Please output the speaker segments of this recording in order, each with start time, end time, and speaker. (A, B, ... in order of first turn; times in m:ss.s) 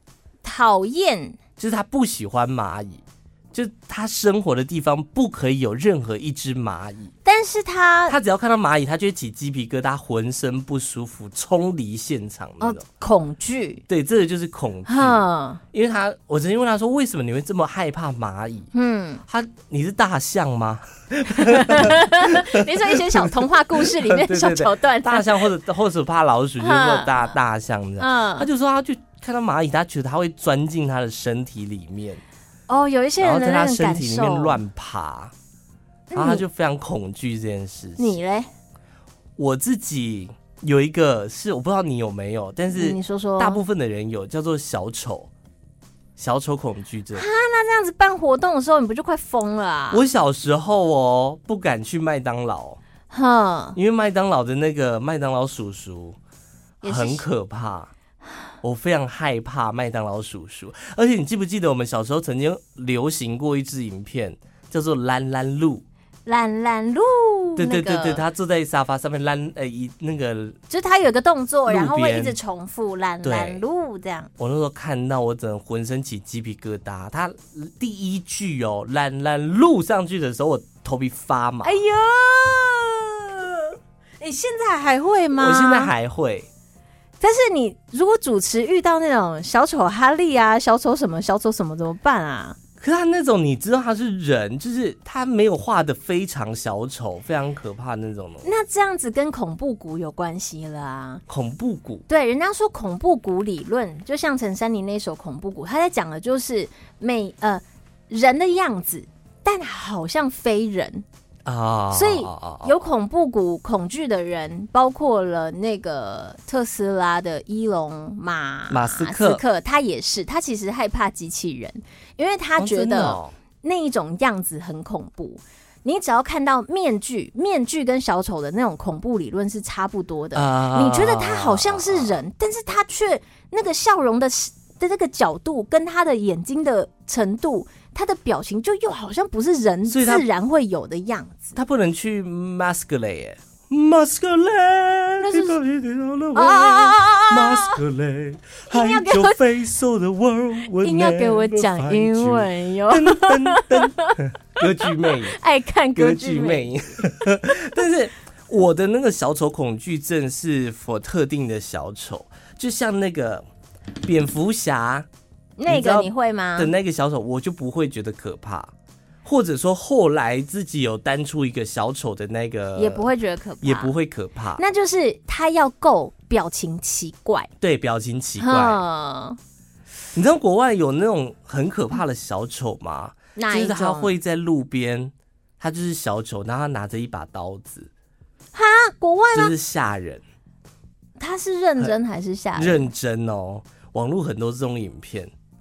0:00.4-0:01.4 A
0:01.6-0:07.1 B
0:07.2-0:08.2 A
0:08.1-0:12.8 B
0:12.6-0:13.8 A
0:13.9-0:18.7 B
0:14.9-0:15.6 A
0:18.7-0:19.2 A
0:19.3-0:32.2 B
0:21.3-0:25.4 A
0:26.6-0:27.4 A
0:28.0-0:28.5 A
0:32.7-0:34.6 A
0:33.2-0:35.3 B
0:36.1-0:36.4 A
0:36.1-0:38.2 B
0:38.0-0:38.5 A
0:39.4-0:45.3 B
0:42.7-0:43.6 A
0:46.2-0:47.3 B
0:47.1-0:50.0 A
0:49.9-0:52.8 B
0:53.1-0:53.8 A
0:53.8-0:56.2 B
0:56.8-0:57.2 A
0:56.8-0:57.9 B
0:58.6-1:05.8 B
1:06.3-1:08.2 A
1:07.6-1:10.6 B
1:10.7-1:14.3 A
1:11.7-1:12.4 B
1:13.2-1:13.6 B
1:14.4-1:21.8 B
1:21.6-1:23.7 A
1:24.2-1:25.9 A
1:25.4-1:26.5 B
1:27.2-1:32.6 A
1:32.8-1:38.5 B
1:38.4-1:41.2 A
1:41.3-1:42.0 B
1:42.1-1:51.0 A
1:51.4-1:52.7 B
1:51.9-2:21.6 A
1:58.7-1:59.4 B
2:02.6-2:03.3 B
2:10.3-2:12.2 B
2:19.9-2:20.3 B
2:21.6-2:35.4 B
2:25.2-2:25.6 A
2:26.3-2:27.8 A
2:28.7-2:29.4 A
2:30.8-2:37.8 A
2:36.0-2:43.5 B
2:44.0-2:45.1 B
2:45.6-2:46.7 A
2:45.7-2:48.7 B
2:49.2-2:53.1 B
2:52.8-2:53.9 A
2:53.6-2:54.6 B
2:54.6-2:57.5 A
2:57.6-2:58.8 B
2:58.4-2:59.4 A
3:00.1-3:07.9 B
3:03.4-3:04.1 A
3:08.6-3:09.5 A
3:09.3-3:10.2 B
3:11.2-3:12.9 A
3:12.6-3:15.3 B